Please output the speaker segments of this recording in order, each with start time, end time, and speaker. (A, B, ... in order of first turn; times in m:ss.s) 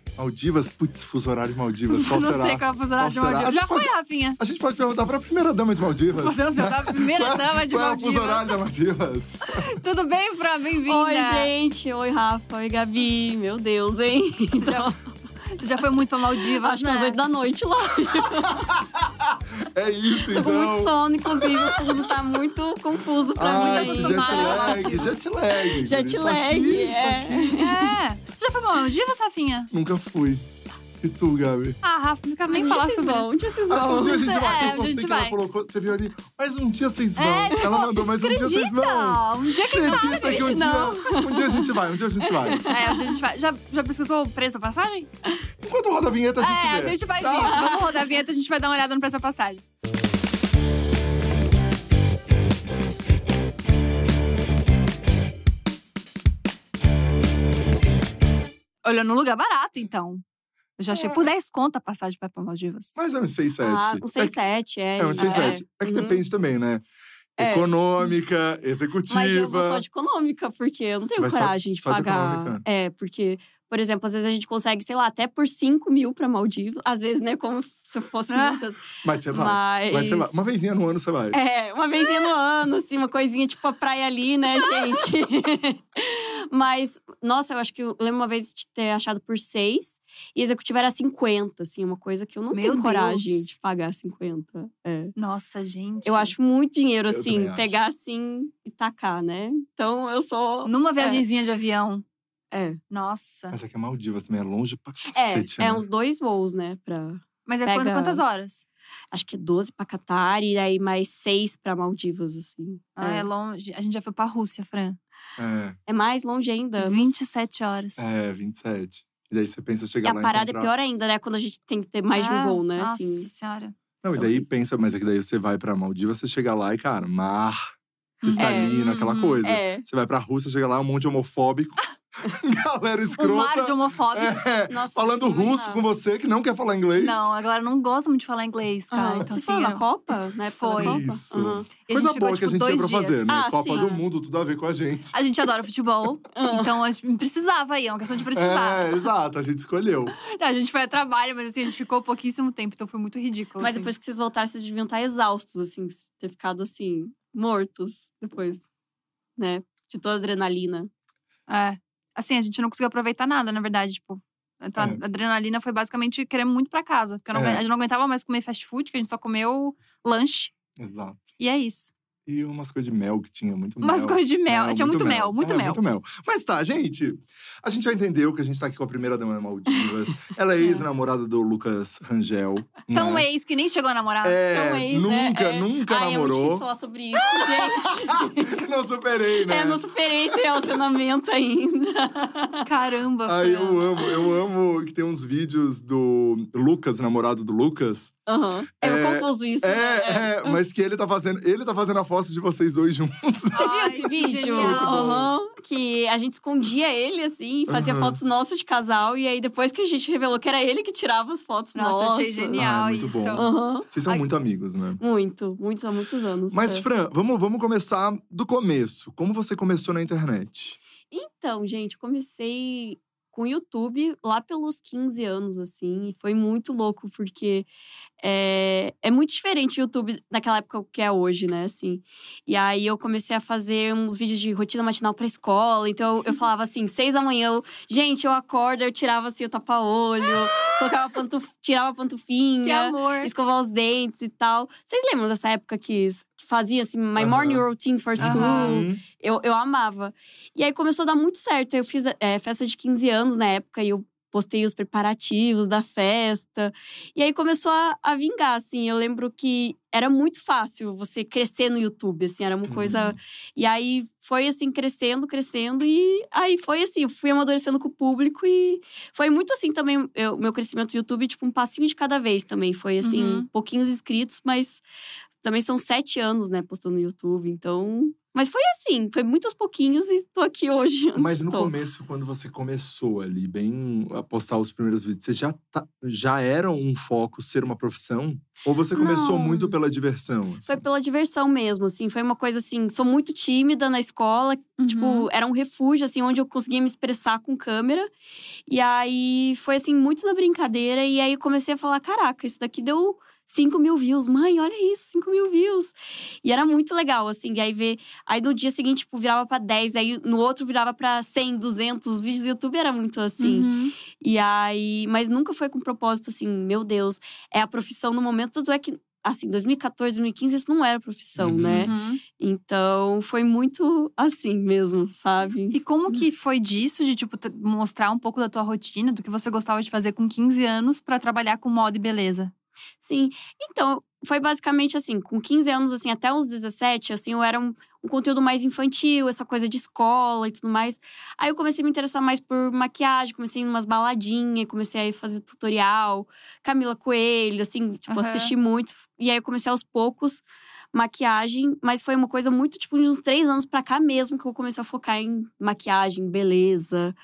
0:00.2-0:09.6 A
0:01.9-0:04.4 B
0:06.1-0:08.5 B
0:09.4-0:11.5 B
0:10.8-0:15.0 C
0:14.6-0:14.9 B
0:15.5-0:17.2 B
0:16.4-0:18.7 C
0:18.4-0:21.6 A
0:20.3-0:27.9 C
0:23.3-0:27.7 A
0:23.5-0:25.1 B
0:27.6-0:29.7 B
0:29.7-0:30.4 A
0:31.0-0:31.8 A
0:31.8-0:33.3 B
0:32.5-0:34.4 C
0:33.7-0:42.7 A
0:34.2-0:35.4 B
0:37.2-0:40.4 B
0:39.8-0:43.1 C
0:42.6-0:45.1 B
0:45.6-0:47.6 A
0:46.4-0:49.6 B
0:47.3-0:48.1 C
0:58.8-1:00.2 B
1:00.8-1:03.0 B
1:00.9-1:01.2 C
1:03.0-1:04.3 A
1:03.6-1:06.2 C
1:05.0-1:06.8 A
1:05.2-1:05.5 B
1:07.4-1:07.7 C
1:07.4-1:09.8 A
1:09.1-1:20.4 C
1:11.1-1:12.6 A
1:18.3-1:18.6 B
1:19.0-1:21.4 A
1:21.3-1:35.1 C
1:32.5-1:33.5 B
1:35.2-1:36.3 B
1:36.0-1:41.2 C
1:37.1-1:37.8 A
1:40.6-1:42.0 B
1:42.5-1:42.8 C
1:42.9-1:43.6 B
1:43.5-1:45.8 A
1:45.1-1:48.2 C
1:47.4-1:48.6 B
1:49.1-1:53.3 C
1:53.0-1:55.0 B
1:55.4-1:55.8 A
1:55.9-1:57.2 C
1:56.8-1:58.1 B
1:58.0-2:00.7 A
2:00.0-2:03.3 C
2:02.1-2:03.8 B
2:04.0-2:07.6 A
2:04.2-2:04.4 C
2:08.2-2:09.4 B
2:08.2-2:17.2 A
2:08.3-2:08.8 C
2:09.4-2:09.8 C
2:13.1-2:14.5 B
2:14.7-2:15.8 C
2:17.0-2:19.9 B
2:18.9-2:21.7 C
2:20.5-2:21.0 B
2:20.8-2:25.1 A
2:21.8-2:23.3 B
2:23.3-2:24.0 C
2:25.1-2:29.0 B
2:26.3-2:26.8 C
2:28.3-2:30.1 A
2:30.2-2:33.9 B
2:33.6-2:38.6 C
2:39.4-2:40.9 C
2:41.5-2:50.5 B
2:47.3-2:47.6 A
2:50.8-2:51.2 A
2:51.4-2:51.9 B
2:52.3-3:03.3 A
2:53.8-2:55.8 B
3:00.6-3:00.8 B
3:02.9-3:04.4 B
3:04.2-3:06.6 A
3:04.5-3:08.6 C
3:07.8-3:09.8 A
3:09.4-3:12.7 C
3:12.6-3:13.8 B
3:13.2-3:18.1 A
3:18.3-3:20.6 C
3:18.8-3:23.7 A
3:23.5-3:25.2 B
3:23.5-3:32.6 C
3:24.5-3:25.3 A
3:27.7-3:28.2 A
3:31.7-3:33.5 B
3:32.6-3:35.0 A
3:33.4-3:34.3 C
3:35.0-3:36.8 C
3:36.5-3:40.8 A
3:41.1-3:47.7 C
3:48.2-4:34.8 C
4:02.6-4:03.3 B
4:07.2-4:07.6 A
4:08.2-4:09.0 A
4:08.2-4:08.8 B
4:22.7-4:23.2 A
4:33.0-4:33.5 B
4:35.4-4:41.7 C
4:41.1-4:50.8 A
4:48.9-4:49.8 C
4:50.6-4:58.1 C
4:54.8-4:55.3 B
4:58.7-5:26.2 C
5:13.4-5:13.9 B
5:21.4-5:21.9 A
5:21.8-5:22.2 B
5:25.7-5:32.5 B
5:33.0-5:57.1 C
5:48.1-5:48.5 B